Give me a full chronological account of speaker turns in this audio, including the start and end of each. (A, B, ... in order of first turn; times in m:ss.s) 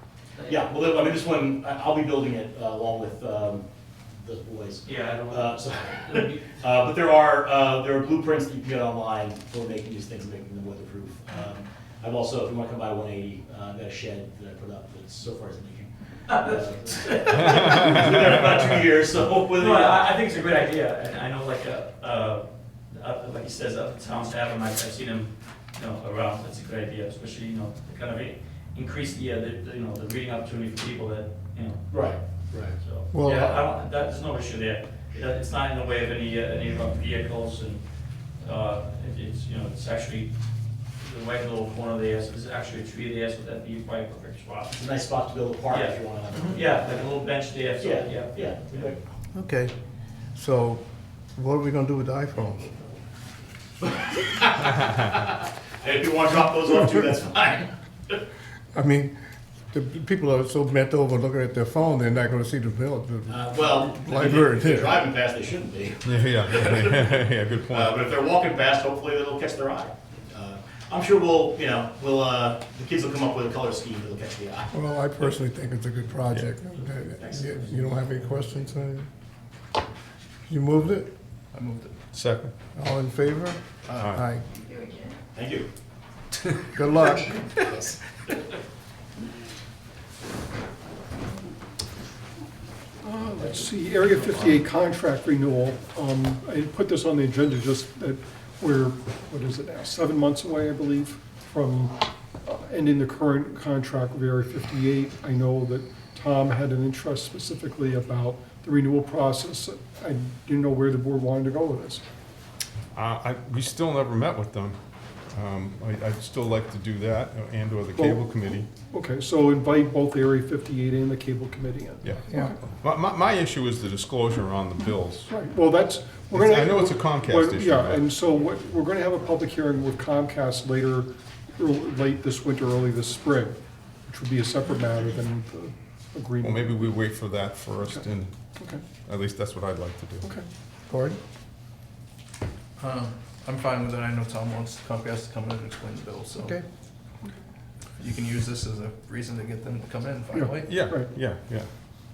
0:00.5-0:20.0 A
0:04.8-0:06.5 B
0:16.3-0:18.9 B
0:19.5-0:32.2 B
0:31.9-0:32.7 A
0:32.7-0:37.8 B
0:33.1-0:33.6 C
0:38.4-0:40.3 B
0:41.0-0:44.8 B
0:44.7-0:47.1 A
0:45.7-0:49.0 B
0:47.8-0:49.0 A
0:49.3-0:49.7 C
0:50.3-0:50.8 C
0:51.4-0:52.9 C
0:53.8-0:58.2 A
0:58.7-0:59.1 C
0:59.7-1:05.0 C
1:03.3-1:07.1 A
1:06.0-1:07.9 D
1:07.7-1:14.7 A
1:14.7-1:19.1 C
1:17.1-1:18.1 A
1:20.5-1:21.1 C
1:21.5-1:22.0 E
1:22.1-1:22.5 D
1:22.8-1:24.5 C
1:23.9-1:24.2 D
1:25.3-1:25.7 A
1:26.7-1:27.4 C
1:27.6-1:28.0 A
1:33.0-1:52.0 F
1:52.9-1:54.8 D
1:55.3-1:58.7 D
1:57.9-2:02.6 F
2:02.0-2:05.3 D
2:05.3-2:16.9 F
2:06.3-2:08.1 D
2:16.4-2:18.3 D
2:19.1-2:20.3 D
2:20.9-2:21.2 C
2:22.8-2:26.6 E
2:28.0-2:30.9 E
2:30.3-2:31.1 F
2:30.6-2:31.7 D